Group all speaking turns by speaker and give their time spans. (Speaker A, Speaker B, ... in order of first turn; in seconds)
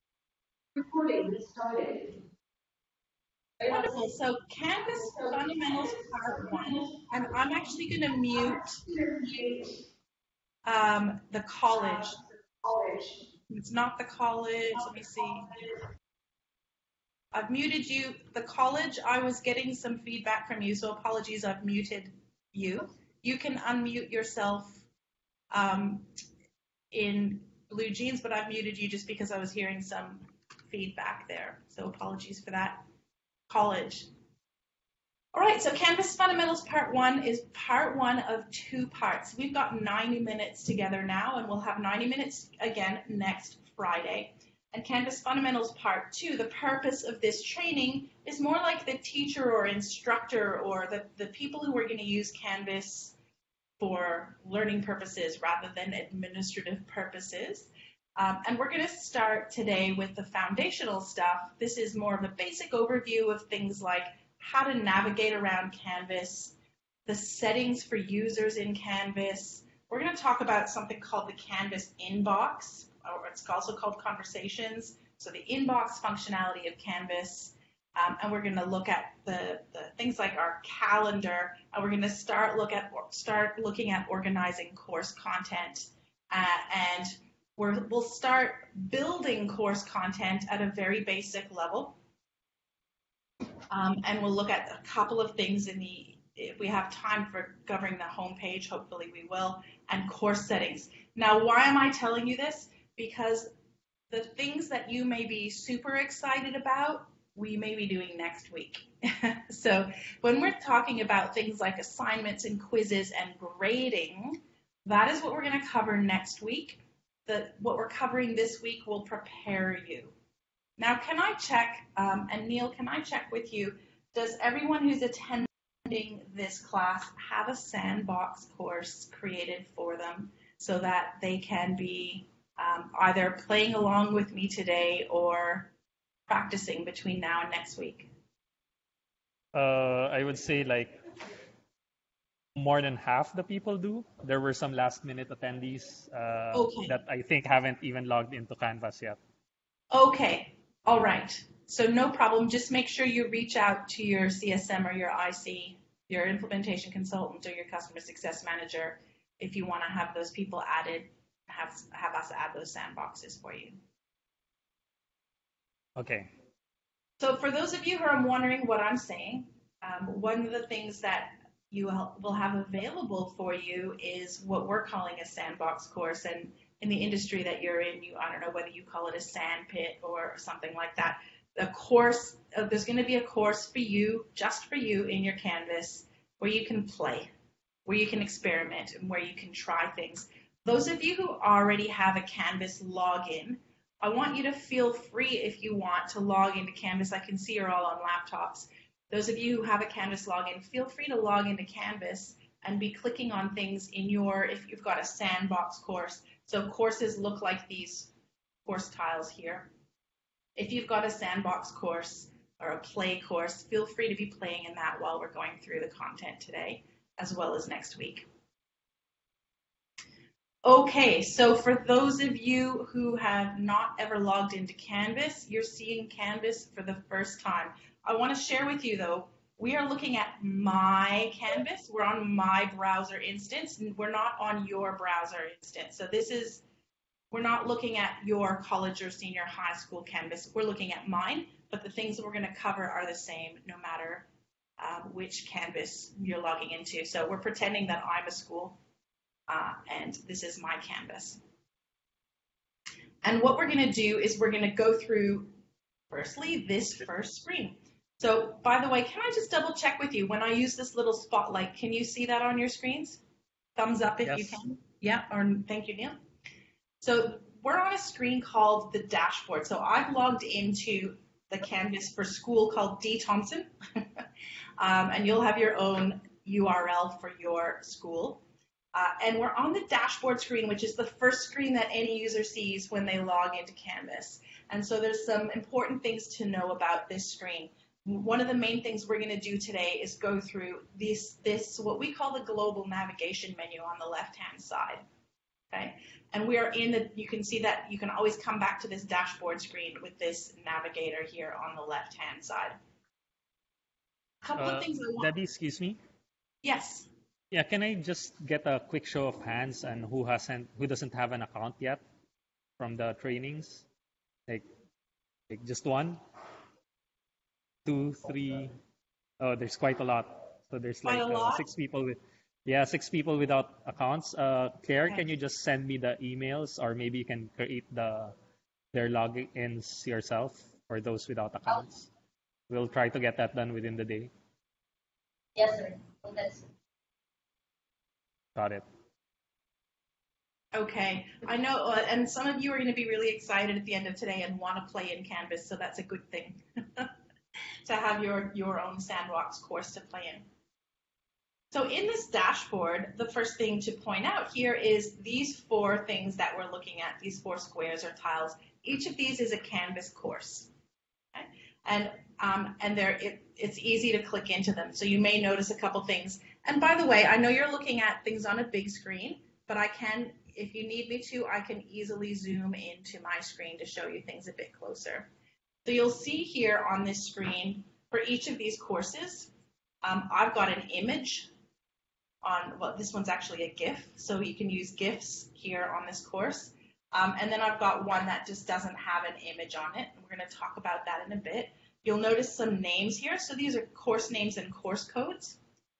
Speaker A: 0.8-2.2, 3.6-4.0, 4.9-7.0, 8.3-9.8, 11.7-13.3, 14.9-15.7, 335.6-336.6
Speaker B: 3.7-8.8, 10.6-12.2, 13.5-15.5, 17.3-24.8, 25.5-26.1, 26.9-32.8, 33.5-34.1, 35.3-53.1, 53.8-92.0, 93.7-103.5, 104.1-120.1, 120.8-135.7, 136.3-138.1, 146.5-146.9, 149.9-163.7, 167.2-187.3, 187.8-208.1, 208.7-209.7, 210.6-218.2, 220.6-236.6, 237.3-244.2, 244.8-248.8, 249.5-251.4, 253.2-255.5, 256.1-263.2, 263.8-266.2, 267.0-274.2, 274.8-278.4, 278.9-295.0, 295.7-302.8, 304.4-305.3, 306.6-307.1, 321.0-321.7, 340.7-347.1, 347.9-350.4, 351.7-360.7, 361.3-375.3, 375.8-379.5, 380.0-381.5, 382.4-395.6
Speaker C: 139.5-141.0, 142.6-149.2, 165.9-166.3, 264.2-264.6, 304.6-306.0, 307.5-312.0, 312.8-313.8, 315.5-316.2, 317.8-318.8, 319.4-328.3, 328.9-332.1, 332.7-334.3, 338.5-338.8